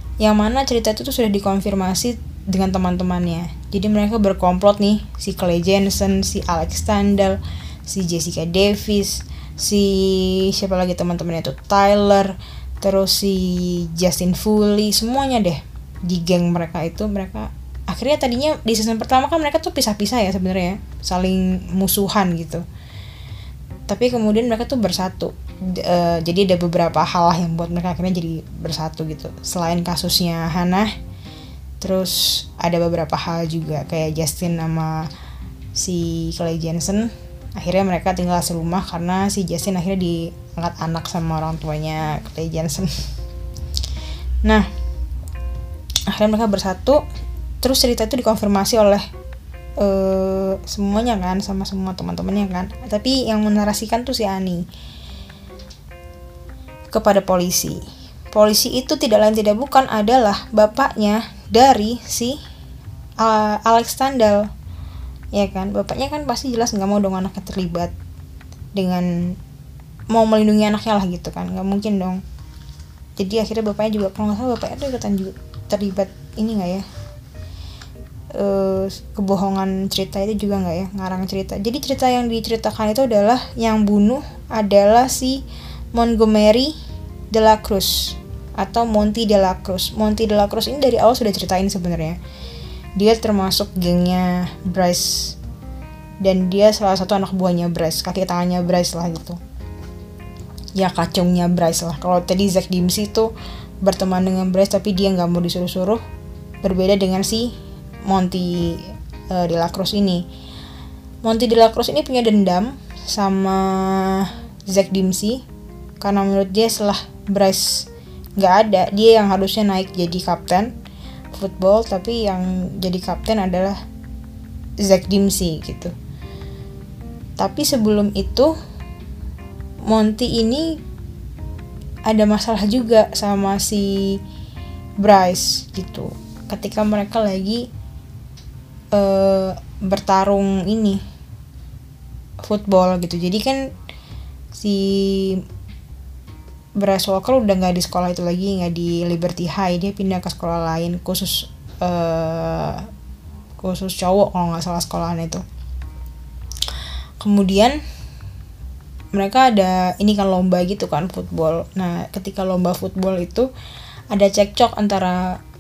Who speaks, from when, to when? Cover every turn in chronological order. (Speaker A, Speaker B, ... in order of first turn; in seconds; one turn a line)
Speaker A: 0.2-22.6
Speaker A: 23.9-30.9
Speaker A: 31.8-35.0
Speaker A: 35.8-43.0
Speaker A: 46.1-47.0
Speaker A: 47.6-49.0
Speaker A: 49.8-54.7
Speaker A: 56.9-57.8
Speaker A: 58.3-62.4
Speaker A: 63.2-64.5
Speaker A: 65.3-67.9
Speaker A: 68.8-69.3
Speaker A: 70.1-72.2
Speaker A: 73.2-76.8
Speaker A: 78.4-85.4
Speaker A: 85.9-86.8
Speaker A: 87.3-92.2
Speaker A: 93.0-95.4
Speaker A: 96.2-99.4
Speaker A: 100.8-103.3
Speaker A: 103.8-106.0
Speaker A: 106.6-107.5
Speaker A: 108.1-110.2
Speaker A: 111.2-115.4
Speaker A: 116.0-120.7
Speaker A: 121.3-123.8
Speaker A: 124.8-125.9
Speaker A: 127.4-128.5
Speaker A: 129.9-130.8
Speaker A: 132.1-134.2
Speaker A: 135.0-137.7
Speaker A: 138.9-141.0
Speaker A: 142.4-143.7
Speaker A: 144.5-145.4
Speaker A: 146.8-152.9
Speaker A: 153.6-155.4
Speaker A: 157.2-157.8
Speaker A: 159.1-163.5
Speaker A: 164.1-165.4